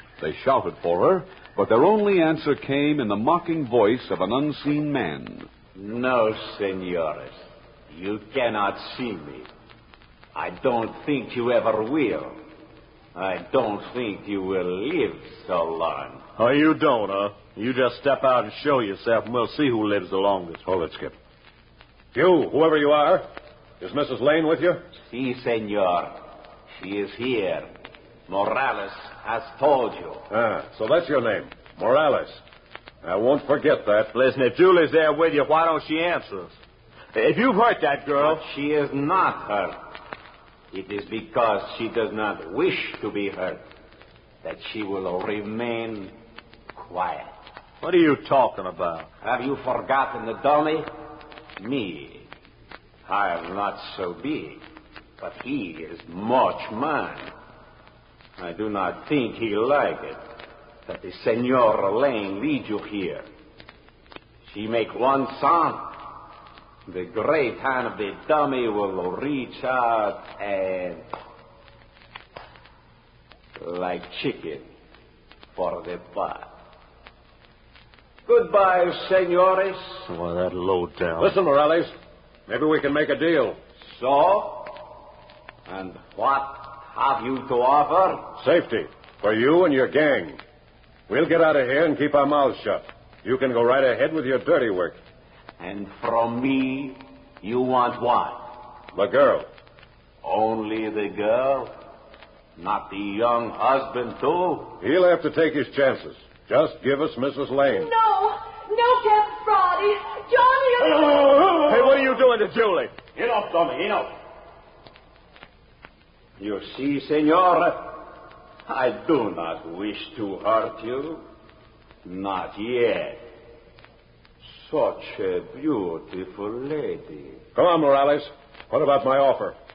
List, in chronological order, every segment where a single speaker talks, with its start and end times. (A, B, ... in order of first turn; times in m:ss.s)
0:00.2-0:05.5 A
0:05.8-0:09.5 B
0:10.4-0:12.4 B
0:13.2-0:16.2 B
0:16.4-0:20.6 C
0:20.6-0:21.2 D
0:22.1-0:23.3 D
0:23.8-0:24.9 D
0:25.0-0:26.2 B
0:26.7-0:27.7 B
0:28.3-0:30.3 B
0:30.3-0:32.4 D
0:33.0-0:34.1 D
0:34.1-0:36.6 C
0:37.1-0:38.4 C
0:38.2-0:39.9 B
0:40.7-0:43.6 B
0:44.4-0:46.1 B
0:46.8-0:47.4 B
0:47.8-0:49.1 C
0:49.2-0:50.9 B
0:51.6-0:52.3 B
0:53.1-0:54.6 B
0:55.2-0:57.3 B
0:58.4-1:00.2 B
1:00.9-1:03.2 B
1:04.4-1:06.0 B
1:06.9-1:11.0 B
1:13.6-1:14.7 B
1:15.5-1:16.5 B
1:18.3-1:20.1 B
1:20.1-1:21.3 C
1:21.2-1:21.9 D
1:22.5-1:23.6 D
1:23.8-1:25.0 B
1:25.7-1:28.3 B
1:28.4-1:30.4 D
1:31.1-1:35.0 D
1:35.6-1:38.6 B
1:38.9-1:39.5 D
1:40.2-1:41.7 B
1:42.6-1:44.8 B
1:44.8-1:47.9 D
1:47.7-1:51.5 E
1:51.3-1:52.0 B
1:51.6-1:53.0 C
1:53.1-1:54.1 B
1:56.4-1:58.1 B
1:58.7-2:01.2 B
2:02.0-2:03.2 B
2:04.5-2:07.4 B
2:07.6-2:09.6 D